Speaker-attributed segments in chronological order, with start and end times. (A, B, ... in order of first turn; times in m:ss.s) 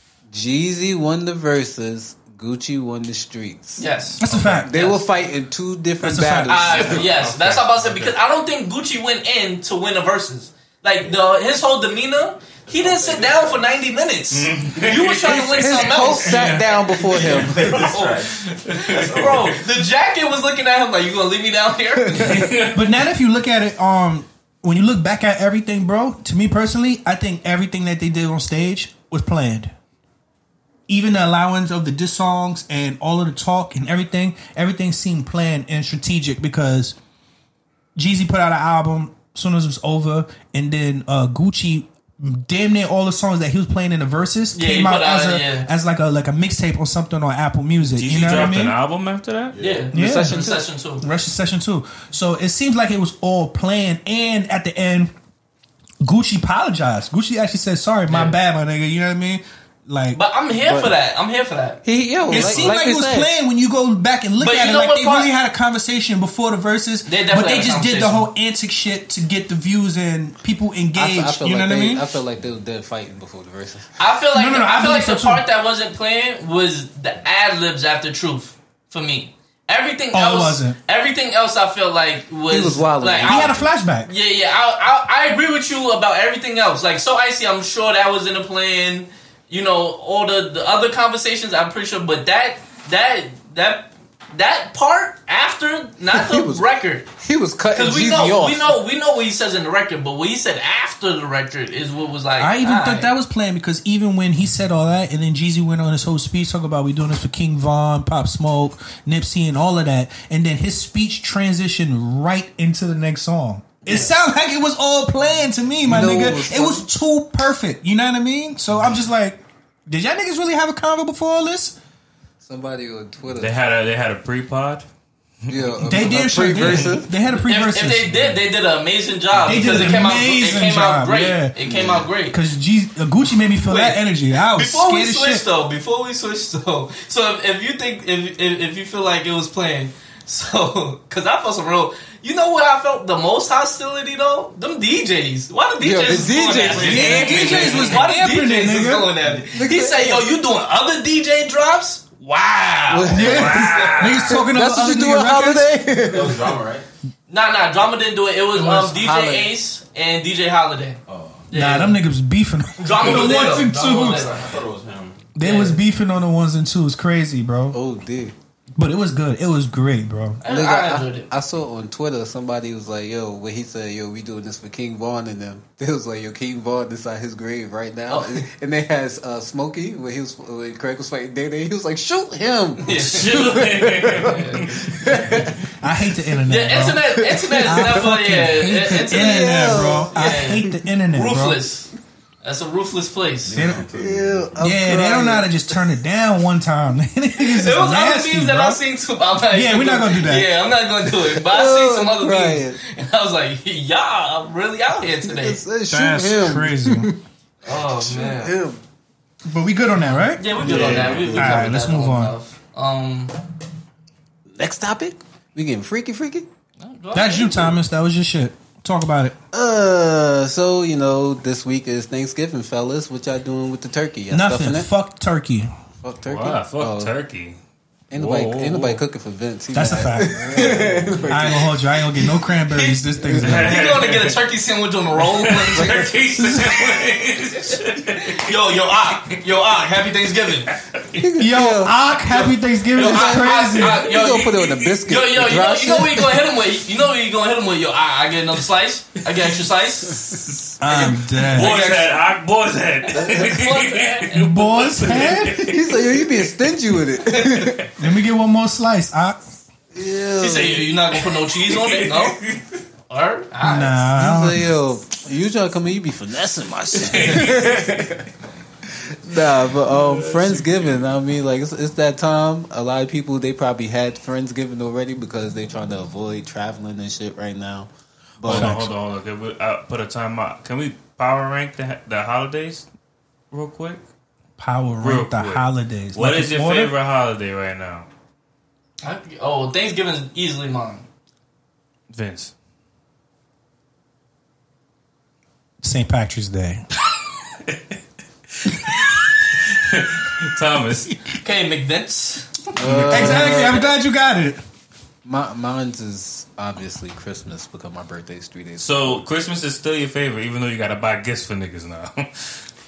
0:00.3-0:03.8 A
0:03.8-0:05.0 B
0:04.2-0:04.7 C
0:04.3-0:04.6 D
0:04.5-0:07.1 A
0:06.0-0:06.9 C
0:06.5-0:22.5 B
0:06.8-0:08.1 D
0:12.6-0:13.8 E
0:14.3-0:16.6 D
0:15.3-0:17.8 A
0:16.2-0:16.6 C
0:17.1-0:19.6 E
0:18.6-0:19.6 D
0:22.1-0:22.5 A
0:22.1-0:22.8 D
0:22.7-0:29.7 C
0:30.9-0:37.0 C
0:38.0-0:48.8 C
0:44.5-0:45.7 B
0:47.9-0:49.6 D
0:49.5-0:49.9 E
0:49.6-0:51.0 B
0:49.9-0:50.6 A
0:49.9-0:55.1 C
0:56.0-1:00.2 C
0:58.1-0:58.4 B
1:00.1-1:01.8 B
1:00.5-1:00.9 A
1:01.8-1:03.3 A
1:02.3-1:12.0 C
1:04.4-1:05.3 B
1:07.0-1:08.3 B
1:10.9-1:14.0 A
1:14.0-1:37.1 B
1:14.3-1:15.4 C
1:20.1-1:20.8 C
1:22.5-1:23.7 A
1:23.2-1:24.1 C
1:36.1-1:36.6 A
1:37.2-1:38.8 A
1:37.7-1:43.1 B
1:42.4-2:01.8 C
1:53.8-1:54.1 B
1:55.8-1:56.8 A
2:02.4-2:03.5 A
2:03.4-2:04.8 D
2:05.5-2:07.1 A
2:05.8-2:08.2 C
2:07.3-2:12.4 B
2:09.4-2:11.6 C
2:09.5-2:09.9 A
2:11.6-2:12.1 A
2:12.3-2:15.4 C
2:13.6-2:34.1 B
2:25.8-2:27.9 A
2:26.5-2:27.9 D
2:26.7-2:29.1 C
2:29.2-2:30.3 A
2:32.9-2:36.6 A
2:33.0-2:34.4 D
2:34.0-2:35.7 C
2:36.0-2:36.8 E
2:37.3-2:42.0 B
2:38.5-2:39.5 A
2:41.1-2:41.5 E
2:41.5-2:44.3 C
2:42.8-2:44.6 B
2:43.0-2:45.3 E
2:45.4-2:47.8 C
2:45.4-2:45.8 B
2:47.7-2:48.3 A
2:48.8-2:50.4 C
2:50.4-2:51.3 B
2:50.4-3:05.6 A
2:58.1-2:58.4 B
3:02.8-3:04.8 B
3:02.9-3:05.5 D
3:05.8-3:07.0 C
3:06.5-3:11.9 B
3:06.9-3:08.0 A
3:07.6-3:11.6 C
3:08.9-3:10.8 A
3:12.4-3:13.6 B
3:13.4-3:14.8 E
3:13.6-3:13.8 C
3:13.9-3:15.8 A
3:14.6-3:18.8 C
3:17.4-3:25.6 B
3:19.5-3:20.5 C
3:21.2-3:22.8 A
3:25.0-3:27.2 A
3:25.9-3:27.1 C
3:27.6-3:28.6 B
3:27.7-3:28.8 A
3:29.4-3:30.5 C
3:30.3-3:33.4 B
3:30.6-3:31.5 D
3:30.6-3:31.6 A
3:31.3-3:32.3 C
3:34.5-3:36.5 A
3:36.8-3:37.7 B
3:37.1-3:39.4 C
3:39.5-3:44.9 A
3:44.3-3:45.7 C
3:46.0-3:47.1 A
3:46.2-3:47.6 D
3:48.1-3:51.8 A
3:48.1-3:49.0 D
3:49.7-3:54.0 C
3:52.7-3:56.1 B
3:53.4-3:54.4 D
3:55.2-3:59.3 D
3:55.8-3:56.1 A
3:56.3-3:56.8 C
3:57.7-4:00.7 B
4:00.8-4:01.1 D
4:01.1-4:02.0 A
4:01.3-4:04.0 C
4:02.3-4:12.1 B
4:02.9-4:06.5 A
4:04.3-4:05.0 D
4:10.8-4:11.8 C
4:10.9-4:16.5 D
4:13.1-4:15.3 B
4:14.3-4:15.7 C
4:15.5-4:17.9 A
4:18.0-4:19.4 C
4:19.9-4:20.9 A
4:20.4-4:22.4 B
4:21.3-4:22.8 D
4:23.1-4:24.0 B
4:23.6-4:24.7 C
4:24.1-4:28.2 A
4:26.9-4:28.2 D
4:28.9-4:38.7 A
4:29.9-4:31.1 D
4:38.4-4:42.9 D
4:38.5-4:38.9 C
4:43.5-4:44.0 D
4:44.6-4:46.9 C
4:45.0-4:48.1 D
4:49.0-4:51.0 B
4:52.1-4:52.5 D
4:55.8-4:56.8 C
4:57.1-4:57.9 D
4:58.6-5:01.2 D
5:01.3-5:02.8 B
5:02.8-5:03.9 A
5:02.8-5:03.8 D
5:03.1-5:04.6 C
5:05.2-5:09.2 A
5:08.8-5:12.6 D